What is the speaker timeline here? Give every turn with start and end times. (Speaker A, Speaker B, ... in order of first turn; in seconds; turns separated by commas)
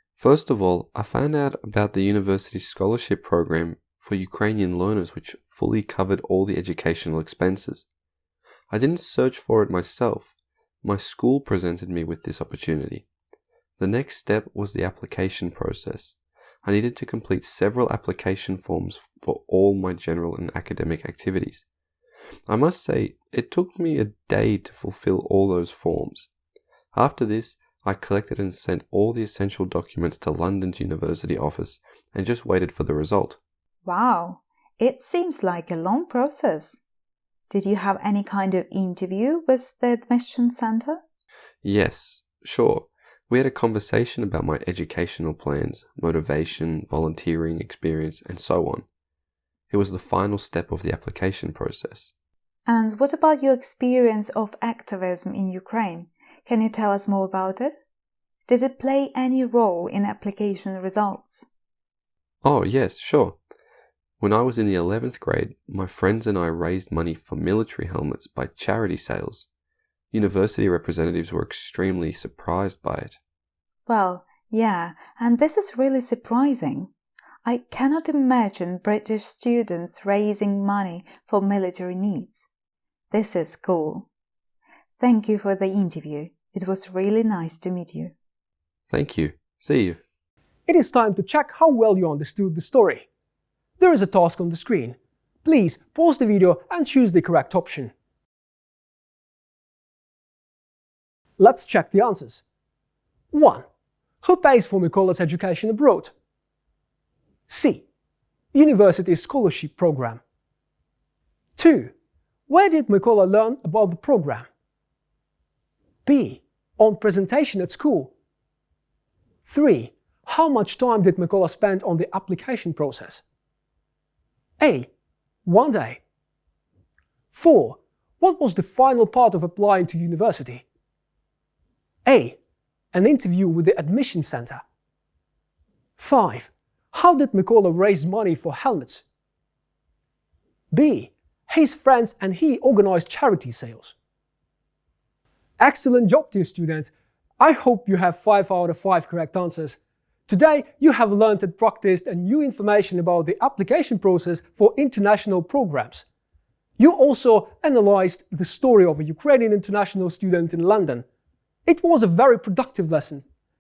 Speaker A: 0.2-7.9, Speaker A: 8.7-10.3, Speaker A: 10.8-13.1, Speaker A: 13.8-21.7, Speaker A: 22.5-26.3, Speaker A: 26.9-33.4, Speaker B: 33.9-36.8, Speaker B: 37.5-41.0, Speaker A: 41.6-48.9, Speaker A: 49.7-52.1, Speaker B: 52.7-57.8, Speaker B: 58.5-61.5, Speaker A: 62.4-63.4, Speaker A: 64.2-69.5, Speaker A: 70.1-73.2, Speaker B: 73.9-76.9, Speaker B: 77.5-82.5, Speaker B: 83.1-84.1, Speaker B: 85.0-88.1, Speaker A: 88.9-90.0, Speaker C: 90.7-93.1, Speaker C: 93.8-97.9, Speaker C: 101.4-102.4, Speaker C: 103.3-103.7, Speaker C: 104.2-106.1, Speaker C: 107.5-107.8, Speaker C: 108.5-110.2, Speaker C: 111.6-111.9, Speaker C: 112.5-114.5, Speaker C: 116.1-118.1, Speaker C: 119.5-123.2, Speaker C: 124.6-124.9, Speaker C: 125.5-126.0, Speaker C: 127.3-130.6, Speaker C: 132.1-132.4, Speaker C: 132.9-134.6, Speaker C: 136.0-139.0, Speaker C: 140.7-143.9, Speaker C: 145.6-156.1, Speaker C: 156.8-161.1, Speaker C: 161.7-163.3